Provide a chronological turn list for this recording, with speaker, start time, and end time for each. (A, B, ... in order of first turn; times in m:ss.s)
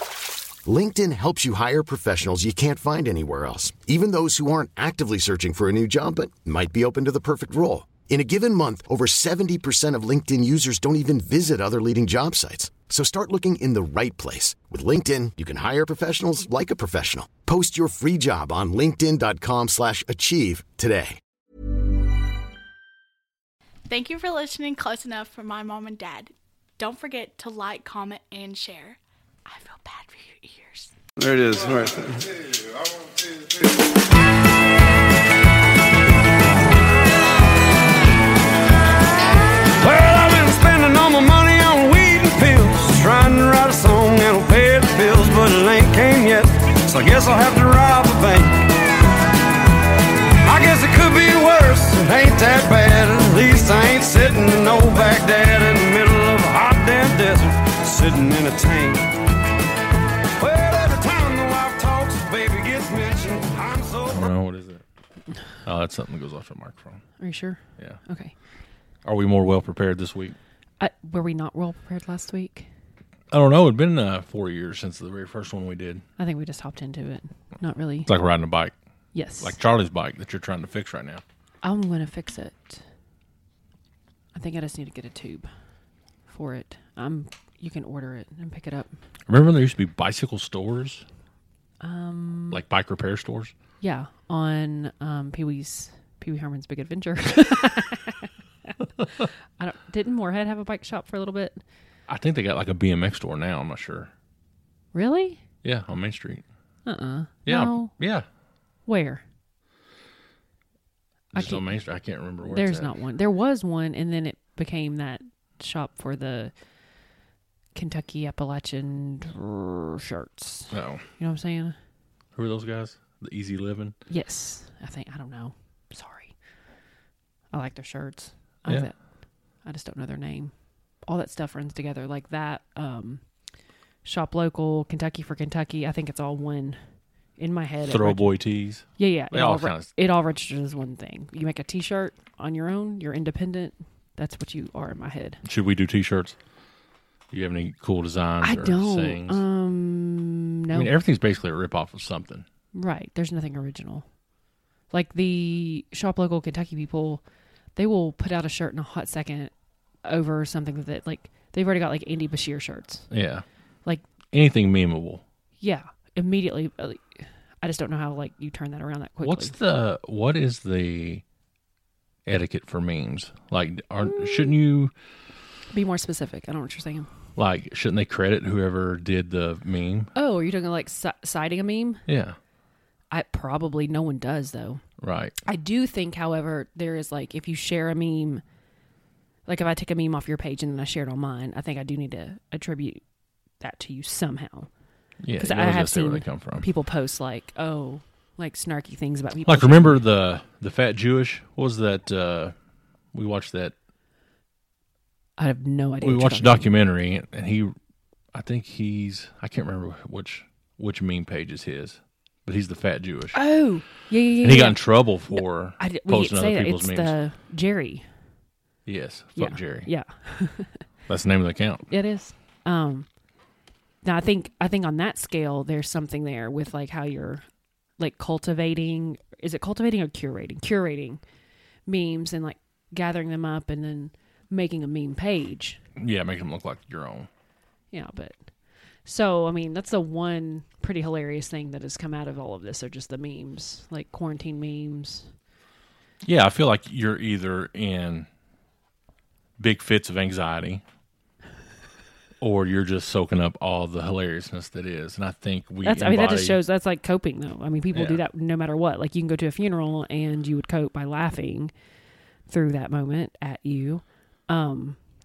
0:00.6-0:21.2 A
0:23.9-0:30.9 B
0:31.2-0:32.4 C
0:39.7-0:48.7 C
0:50.4-0:59.2 C
1:00.4-1:04.3 C
1:04.1-1:04.8 D
1:05.6-1:07.0 D
1:07.2-1:08.3 E
1:09.0-1:10.4 D
1:10.8-1:12.7 E
1:13.3-1:16.0 D
1:16.2-1:18.1 E
1:18.1-1:18.7 D
1:19.1-1:19.6 E
1:19.4-1:21.2 D
1:21.6-1:22.8 E
1:24.3-1:25.5 E
1:26.3-1:28.9 E
1:29.3-1:31.0 D
1:31.8-1:32.6 E
1:32.5-1:33.5 D
1:33.8-1:41.6 E
1:42.1-1:44.1 D
1:44.9-1:45.4 E
1:45.6-1:46.4 D
1:46.9-1:47.9 E
1:47.5-1:48.3 D
1:48.9-1:49.2 E
1:51.3-1:53.0 D
1:51.3-1:51.7 E
1:52.4-1:56.5 E
1:57.8-2:01.8 E
2:00.7-2:01.0 D
2:02.4-2:04.0 D
2:04.1-2:06.3 E
2:07.5-2:09.0 E
2:09.6-2:10.5 E
2:11.0-2:13.2 E
2:14.0-2:16.8 E
2:17.4-2:18.4 E
2:17.9-2:19.9 D
2:19.0-2:25.4 E
2:25.4-2:26.4 D
2:27.3-2:29.4 D
2:28.4-2:30.9 E
2:30.7-2:32.5 D
2:32.7-2:34.1 E
2:34.9-2:37.2 E
2:37.8-2:39.5 E
2:40.0-2:43.1 E
2:43.1-2:43.4 D
2:44.3-2:45.2 D
2:45.6-2:49.6 E
2:49.2-2:51.2 D
2:52.3-2:54.9 D
2:54.1-2:54.5 E
2:55.7-2:57.1 E
2:57.4-3:00.1 D
3:00.2-3:02.0 E
3:02.1-3:02.4 D
3:03.1-3:04.8 E
3:05.0-3:05.4 D
3:05.4-3:08.4 E
3:09.5-3:13.0 E
3:13.6-3:14.7 E
3:15.2-3:16.7 D
3:15.4-3:20.0 E
3:19.4-3:22.6 D
3:23.1-3:23.8 D
3:25.4-3:26.7 E
3:26.0-3:27.8 D
3:28.3-3:33.4 D
3:33.3-3:34.8 E
3:34.4-3:37.2 D
3:35.3-3:38.0 E
3:38.9-3:39.9 D
3:39.4-3:40.8 E
3:41.1-3:41.8 D
3:41.9-3:43.1 E
3:44.0-3:47.4 E
3:48.0-3:51.2 E
3:51.9-3:55.8 E
3:56.0-3:57.3 D
3:57.9-3:58.4 E
3:59.0-4:05.3 E
4:06.2-4:08.3 D
4:09.6-4:10.8 D
4:12.4-4:16.6 D
4:15.8-4:21.7 E
4:17.9-4:18.2 D
4:22.5-4:25.0 E